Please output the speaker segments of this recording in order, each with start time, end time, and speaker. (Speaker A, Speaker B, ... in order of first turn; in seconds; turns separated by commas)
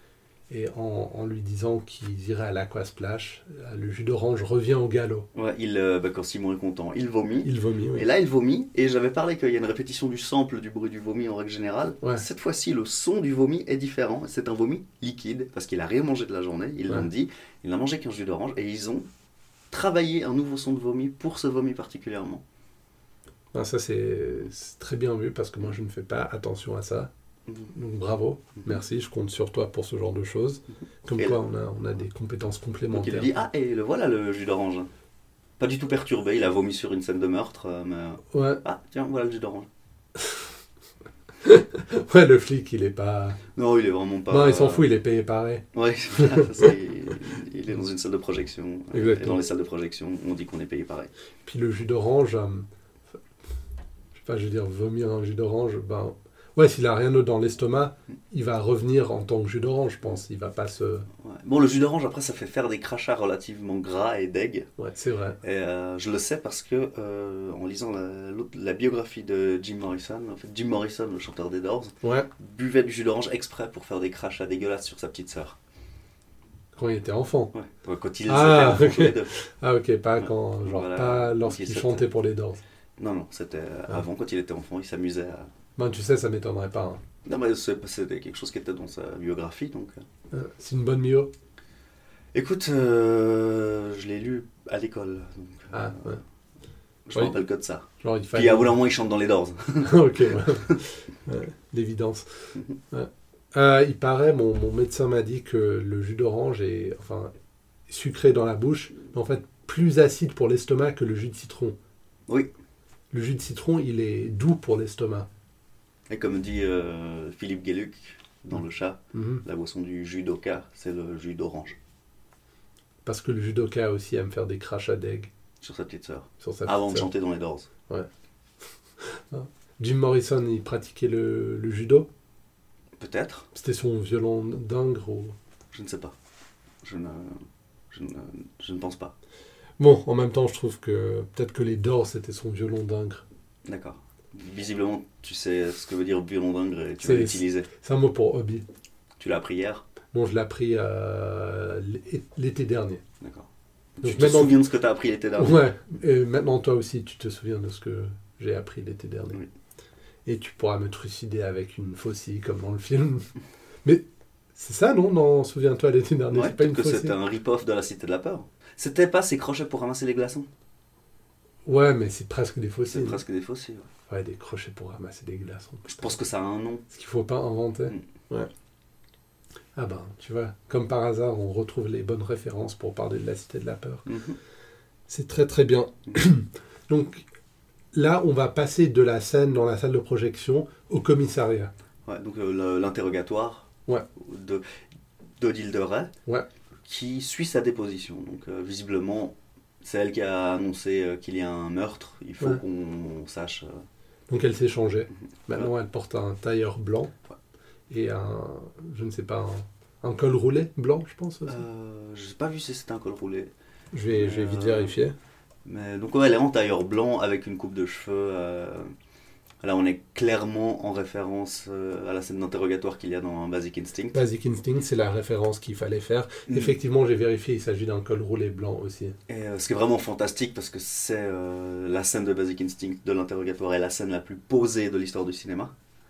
Speaker A: 0.5-5.3, Speaker B: 5.3-19.1, Speaker A: 7.4-8.1, Speaker B: 19.7-22.4, Speaker A: 23.5-27.1, Speaker B: 27.5-27.7, Speaker A: 27.7-33.4, Speaker B: 32.9-34.9, Speaker B: 35.6-39.7, Speaker A: 38.3-38.6, Speaker A: 41.4-43.4, Speaker B: 43.5-44.9, Speaker A: 44.3-45.6, Speaker B: 45.7-51.1, Speaker A: 46.1-46.7, Speaker A: 48.9-49.4, Speaker A: 51.4-52.6, Speaker A: 54.1-61.0, Speaker B: 61.2-64.7, Speaker A: 64.8-65.4, Speaker B: 65.4-75.6, Speaker A: 72.0-72.3, Speaker A: 76.7-77.5, Speaker B: 77.5-79.3, Speaker A: 78.2-82.6, Speaker B: 80.2-82.0, Speaker B: 83.0-85.5, Speaker A: 85.8-87.0, Speaker B: 87.2-90.0, Speaker A: 90.3-91.3, Speaker B: 92.3-96.2, Speaker A: 95.7-96.2, Speaker B: 97.0-100.5, Speaker A: 98.0-98.8, Speaker A: 99.8-107.3, Speaker A: 107.9-111.8, Speaker A: 113.1-115.3, Speaker B: 116.1-121.8, Speaker A: 119.1-119.4, Speaker A: 123.0-125.3, Speaker B: 125.6-127.7, Speaker A: 126.4-127.1, Speaker A: 129.0-132.1, Speaker B: 133.0-133.5, Speaker A: 133.5-135.3, Speaker B: 135.7-136.1, Speaker B: 136.8-137.4, Speaker B: 137.9-139.1, Speaker A: 139.8-143.2, Speaker B: 143.7-147.7, Speaker A: 147.0-148.6, Speaker B: 149.2-149.8, Speaker A: 150.1-153.0, Speaker B: 153.2-153.5, Speaker B: 154.0-155.6, Speaker A: 154.0-154.6, Speaker A: 155.4-159.4, Speaker A: 160.2-163.3, Speaker A: 163.8-167.2, Speaker B: 166.3-170.5, Speaker A: 171.7-173.2, Speaker B: 172.9-173.9, Speaker A: 174.1-176.1, Speaker B: 175.9-176.8, Speaker A: 176.9-178.5, Speaker A: 179.8-184.1, Speaker B: 184.1-184.4, Speaker A: 185.1-187.2, Speaker A: 187.9-191.7, Speaker B: 192.1-194.6, Speaker B: 195.4-196.1, Speaker B: 196.8-203.8, Speaker A: 204.3-207.1, Speaker A: 207.9-211.6, Speaker B: 211.5-213.5, Speaker A: 213.9-215.1, Speaker B: 214.1-215.0, Speaker B: 215.7-218.9, Speaker B: 219.6-224.2, Speaker A: 224.1-229.2, Speaker B: 226.5-226.7, Speaker B: 229.3-235.7